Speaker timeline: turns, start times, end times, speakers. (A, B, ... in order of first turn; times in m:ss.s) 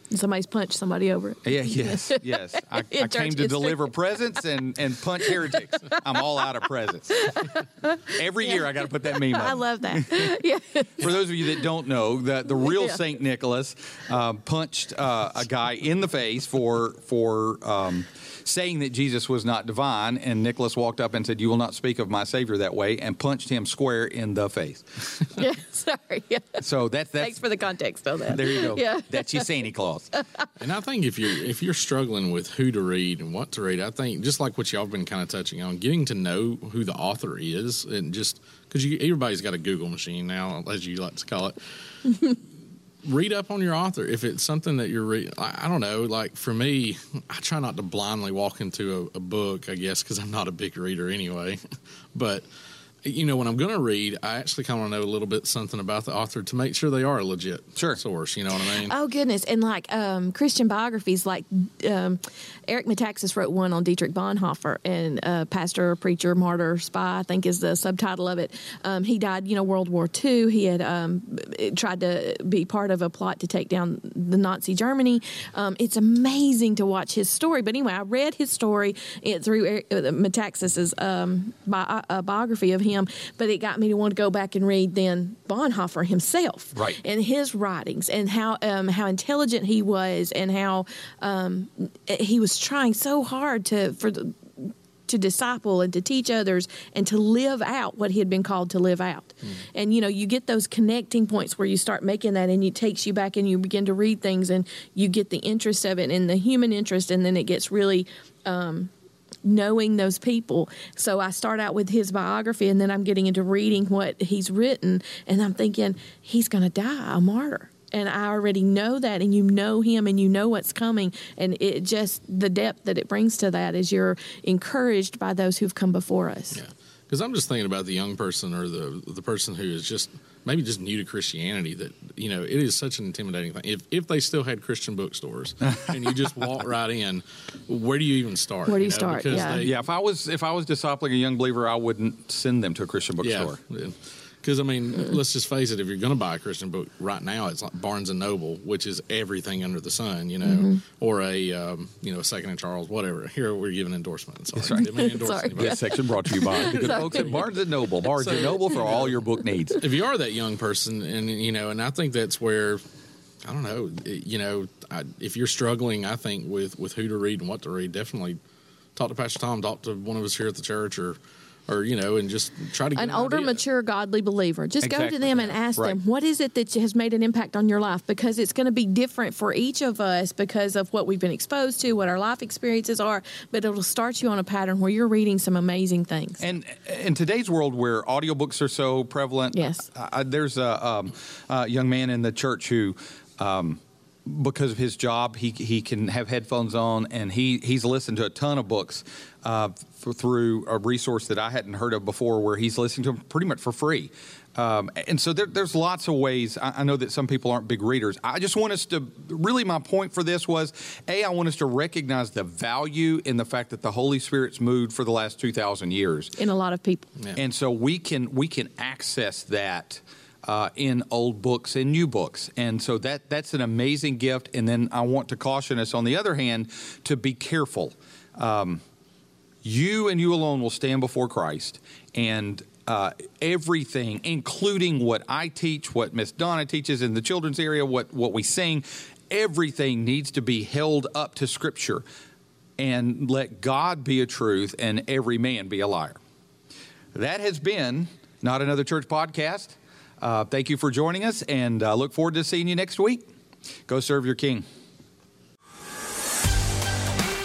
0:00.1-0:03.9 A
0:01.4-0:07.3 B
0:05.2-0:06.2 A
0:07.1-0:11.1 A
0:08.1-0:10.4 B
0:11.0-0:25.3 B
0:12.6-0:13.0 A
0:25.4-0:26.6 A
0:26.6-0:27.4 B
0:27.2-0:29.5 A
0:28.3-0:30.1 B
0:30.1-0:30.5 A
0:30.6-0:42.4 C
0:43.0-0:51.6 C
0:52.1-0:52.4 C
0:53.0-0:58.9 C
0:58.8-1:48.9 A
1:49.4-2:06.6 A
2:06.6-2:19.7 C
2:15.9-2:16.3 B
2:18.7-2:19.7 A
2:19.5-2:23.6 B
2:23.2-2:35.9 C
2:30.4-2:30.8 A
2:34.6-2:34.9 B
2:34.8-2:37.3 A
2:35.5-2:39.8 B
2:36.6-2:37.5 C
2:38.1-2:39.2 C
2:39.8-2:42.8 C
2:43.4-2:48.4 C
2:49.0-2:53.6 C
2:53.0-3:06.4 A
2:54.8-2:56.0 B
3:06.4-3:36.4 B
3:09.5-3:09.9 A
3:36.4-3:37.1 A
3:37.4-3:48.8 B
3:49.6-4:02.0 B
4:02.8-4:06.2 B
4:07.1-4:13.2 B
4:13.9-4:14.6 B